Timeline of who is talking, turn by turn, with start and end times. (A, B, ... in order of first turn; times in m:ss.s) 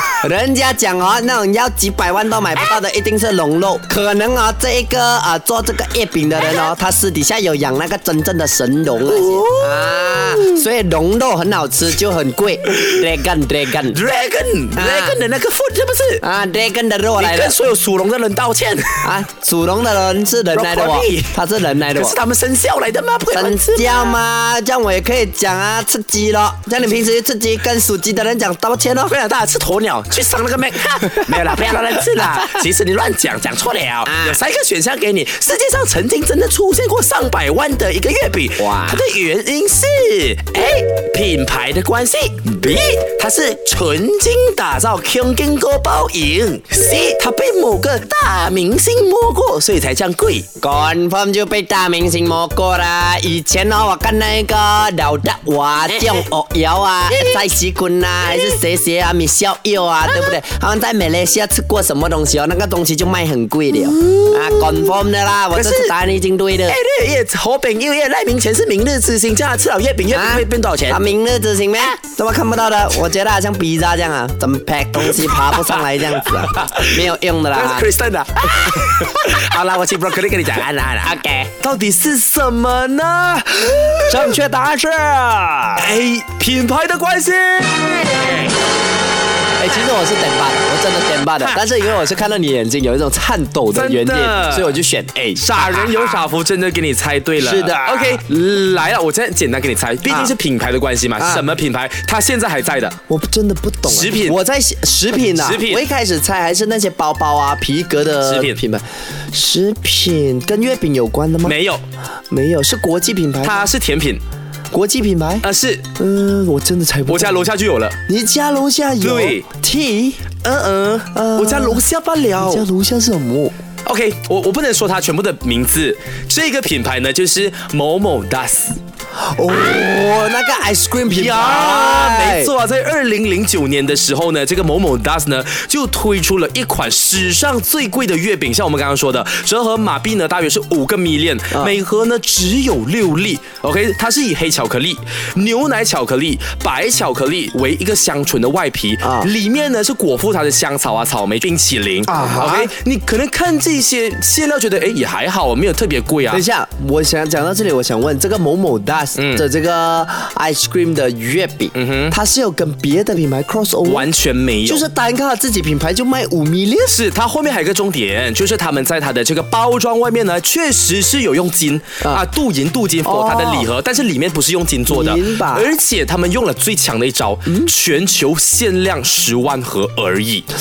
0:00.2-0:14.0 A
0:09.0-0:10.6 B
0:12.7-0:13.0 B
0:13.8-0:16.2 B
0:14.8-0:15.2 A
0:16.2-0:17.6 A
0:17.2-0:19.1 B
0:19.0-0:22.2 A
0:20.5-0:21.4 B
0:21.9-0:24.2 B
0:23.3-0:29.1 A
0:29.1-0:50.5 B
0:31.3-0:32.3 A
0:34.0-0:34.4 A
0:38.6-0:39.0 A
0:50.6-1:06.8 A
0:55.9-0:56.3 B
0:57.1-0:57.5 B
0:58.3-0:58.6 B
1:00.1-1:00.4 B
1:03.7-1:04.9 B
1:05.5-1:05.9 B
1:06.7-1:11.0 B
1:10.1-1:17.9 A
1:15.0-1:24.4 B
1:18.7-1:19.0 A
1:21.0-1:21.5 A
1:24.1-1:25.9 A
1:25.8-1:28.5 B
1:29.6-1:36.2 A
1:33.7-1:34.7 B
1:35.4-1:43.0 B
1:37.4-1:38.2 A
1:40.0-1:40.3 A
1:41.2-1:41.4 A
1:43.1-1:51.6 A
1:43.8-1:44.4 B
1:45.3-1:45.8 B
1:48.2-1:48.6 B
1:51.4-1:51.8 B
1:52.3-1:53.7 A
1:53.4-1:54.2 B
1:54.7-1:55.4 A
1:55.4-1:55.9 B
1:56.0-1:57.5 A
1:57.1-1:58.0 B
1:58.1-2:00.2 A
1:59.0-1:59.4 B
2:00.4-2:02.6 B
2:01.1-2:01.8 A
2:02.4-2:03.5 A
2:03.8-2:08.8 B
2:09.3-2:12.5 A
2:11.1-2:36.4 B
2:29.0-2:29.3 A
2:32.1-2:32.7 A
2:36.3-2:44.1 A
2:39.2-2:39.4 B
2:41.7-2:42.2 B
2:43.8-2:44.9 B
2:44.6-2:47.0 A
2:46.9-3:00.4 B
2:53.0-2:53.7 A
2:54.9-2:55.7 A